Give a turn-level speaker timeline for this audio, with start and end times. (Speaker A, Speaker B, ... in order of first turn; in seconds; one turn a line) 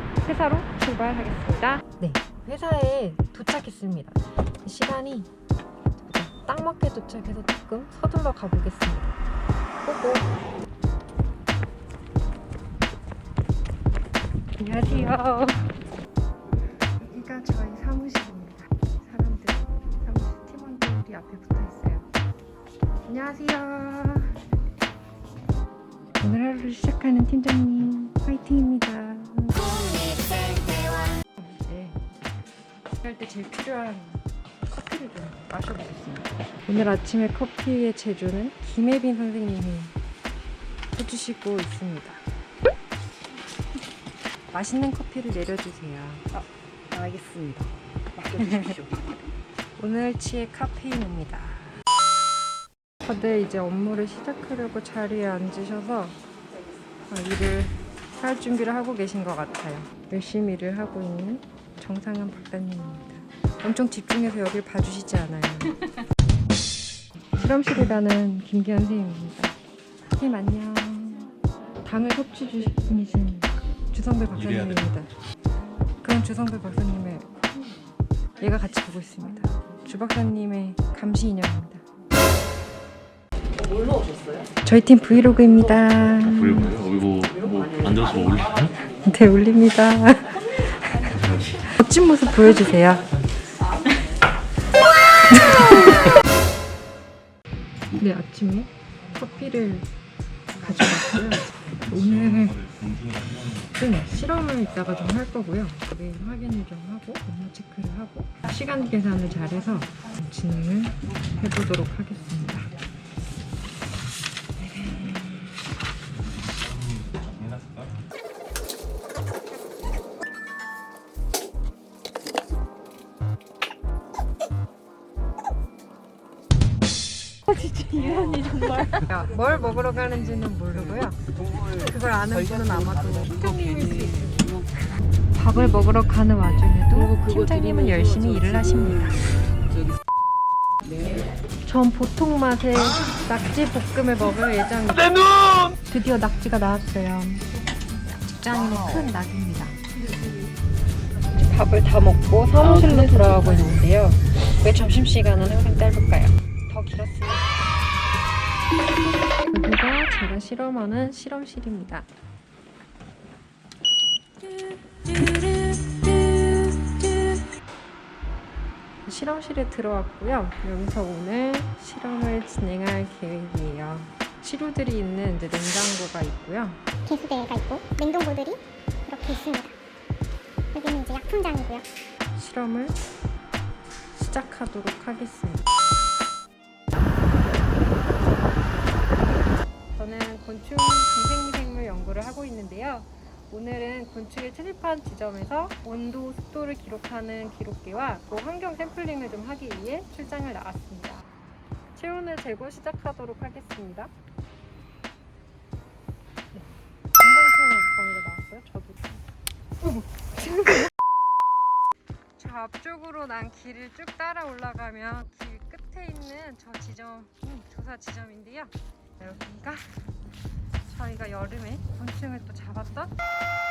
Speaker A: 0.2-5.3
Speaker A: 6.0-9.2
Speaker A: 9.8-10.3
Speaker A: 14.6-15.7
Speaker A: 17.0-22.1
Speaker A: 23.1-24.4
Speaker A: 26.2-32.0
Speaker A: 33.0-40.0
Speaker A: 40.9-42.2
Speaker A: 44.5-46.4
Speaker B: 46.9-48.4
Speaker A: 48.3-48.8
Speaker A: 49.8-51.8
Speaker A: 53.0-56.2
Speaker A: 57.1-65.8
Speaker A: 67.3-69.6
Speaker A: 70.1-75.1
Speaker A: 76.0-77.3
Speaker A: 78.4-81.8
Speaker A: 84.6-86.8
Speaker C: 86.2-88.6
Speaker B: 87.5-87.8
Speaker A: 89.0-93.1
Speaker A: 95.2-96.2
Speaker A: 97.9-99.9
Speaker A: 100.5-102.7
Speaker C: 102.8-103.6
Speaker A: 103.7-112.7
Speaker A: 114.6-115.5
Speaker C: 116.5-117.9
Speaker A: 127.6-134.5
Speaker B: 127.8-128.7
Speaker A: 135.3-139.3
Speaker A: 141.6-145.3
Speaker A: 145.9-149.8
Speaker A: 151.3-157.6
Speaker A: 159.4-162.1
Speaker A: 164.4-167.5
Speaker A: 169.1-176.8
Speaker D: 177.1-179.8
Speaker D: 180.7-181.9
Speaker A: 182.3-183.0
Speaker A: 184.2-185.7
Speaker A: 189.9-201.3
Speaker A: 201.9-204.1
Speaker A: 207.2-209.2
Speaker A: 209.8-210.9
Speaker A: 212.4-219.9
Speaker A: 220.8-223.1